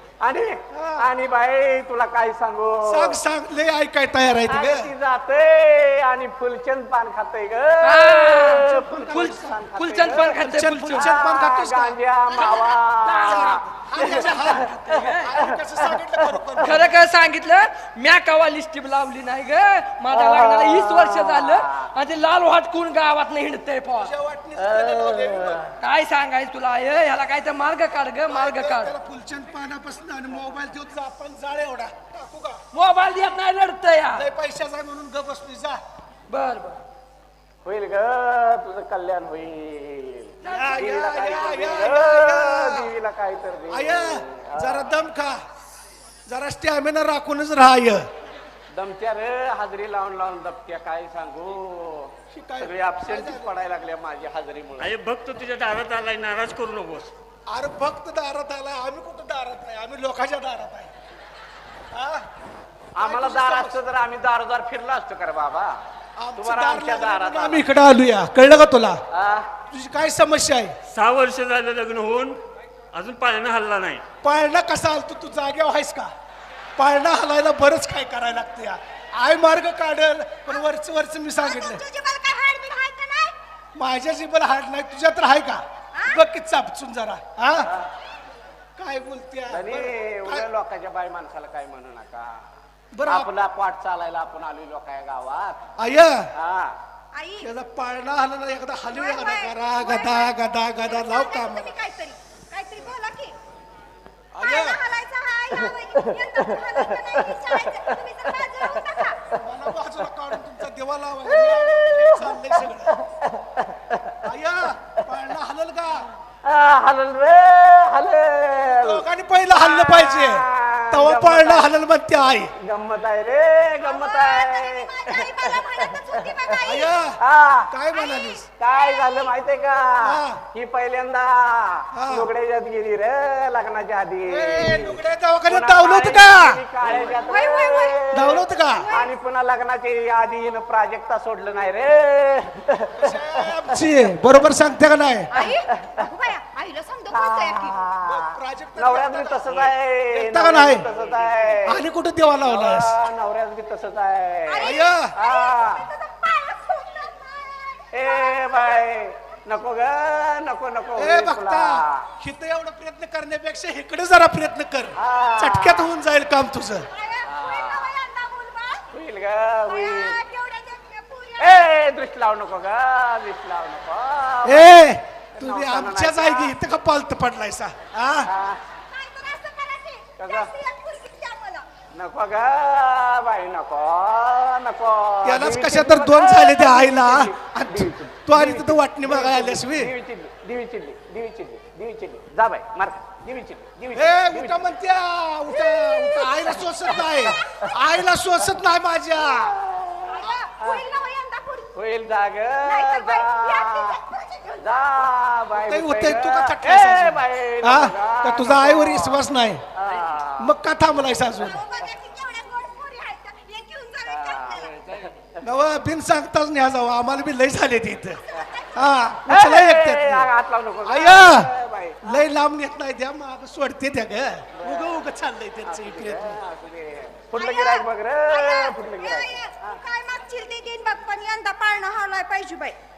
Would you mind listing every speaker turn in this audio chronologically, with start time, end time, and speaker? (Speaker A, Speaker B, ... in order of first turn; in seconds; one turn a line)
Speaker A: 0.2-3.2
Speaker B: 0.7-1.1
Speaker B: 2.9-4.9
Speaker A: 4.5-16.6
Speaker C: 7.8-11.1
Speaker B: 8.6-9.5
Speaker B: 10.2-12.0
Speaker C: 12.4-13.5
Speaker B: 13.0-17.0
Speaker C: 16.6-24.1
Speaker A: 20.1-21.9
Speaker B: 24.0-25.6
Speaker A: 24.6-25.7
Speaker C: 25.8-28.9
Speaker B: 28.3-32.6
Speaker C: 32.7-34.2
Speaker B: 34.1-35.8
Speaker C: 36.3-36.8
Speaker A: 37.6-44.9
Speaker B: 40.4-42.9
Speaker B: 43.7-45.4
Speaker B: 46.3-48.1
Speaker A: 48.7-54.9
Speaker B: 52.3-53.5
Speaker D: 54.8-57.1
Speaker B: 57.5-60.9
Speaker B: 61.9-62.3
Speaker A: 63.0-65.8
Speaker B: 63.0-63.8
Speaker B: 66.2-69.0
Speaker A: 66.4-67.6
Speaker A: 69.1-69.5
Speaker B: 69.7-70.7
Speaker D: 70.9-72.4
Speaker D: 72.9-74.0
Speaker B: 74.2-76.1
Speaker B: 76.8-81.8
Speaker E: 81.4-83.3
Speaker B: 83.8-87.7
Speaker A: 87.6-87.9
Speaker B: 88.8-90.5
Speaker A: 89.5-92.4
Speaker B: 92.9-93.3
Speaker A: 93.0-95.6
Speaker B: 95.8-96.3
Speaker A: 96.3-96.7
Speaker E: 97.1-97.5
Speaker B: 97.4-101.7
Speaker E: 98.9-103.3
Speaker B: 104.3-104.8
Speaker E: 104.4-109.2
Speaker A: 106.0-107.9
Speaker A: 108.8-109.0
Speaker B: 109.4-112.9
Speaker A: 111.6-114.2
Speaker B: 114.2-116.0
Speaker A: 116.4-119.0
Speaker B: 118.7-122.5
Speaker A: 119.5-121.7
Speaker A: 122.6-126.6
Speaker E: 123.8-127.1
Speaker B: 126.6-127.2
Speaker A: 127.2-127.7
Speaker B: 127.7-128.4
Speaker E: 127.9-128.4
Speaker A: 128.6-143.8
Speaker B: 130.0-130.4
Speaker B: 131.9-132.3
Speaker B: 134.2-137.2
Speaker E: 136.9-139.1
Speaker B: 138.1-138.9
Speaker B: 143.0-145.3
Speaker E: 145.3-147.8
Speaker A: 145.3-146.1
Speaker A: 147.1-151.8
Speaker B: 148.1-150.9
Speaker B: 151.7-152.9
Speaker A: 152.5-155.8
Speaker E: 154.5-157.3
Speaker B: 154.6-155.1
Speaker A: 157.9-162.1
Speaker E: 158.0-158.4
Speaker B: 161.0-166.8
Speaker A: 165.0-165.8
Speaker E: 166.9-168.8
Speaker A: 167.2-167.9
Speaker A: 168.9-170.2
Speaker E: 169.7-171.7
Speaker A: 171.4-174.8
Speaker B: 174.4-178.3
Speaker A: 175.3-176.5
Speaker A: 178.2-178.6
Speaker E: 178.9-181.6
Speaker A: 180.2-180.5
Speaker A: 181.9-194.7
Speaker B: 185.2-189.9
Speaker B: 193.9-199.6
Speaker E: 195.7-196.4
Speaker A: 196.4-197.7
Speaker A: 199.4-200.8
Speaker E: 200.1-201.7
Speaker A: 201.7-204.0
Speaker E: 202.6-204.6
Speaker A: 204.5-210.5
Speaker B: 205.5-209.6
Speaker B: 210.4-211.6
Speaker E: 211.2-214.8
Speaker A: 214.1-215.2
Speaker B: 215.4-218.2
Speaker E: 218.4-218.7
Speaker B: 218.7-220.3
Speaker A: 219.3-222.2
Speaker B: 220.8-221.5
Speaker B: 222.0-226.4
Speaker A: 224.6-225.0
Speaker A: 225.7-229.8
Speaker E: 227.3-232.8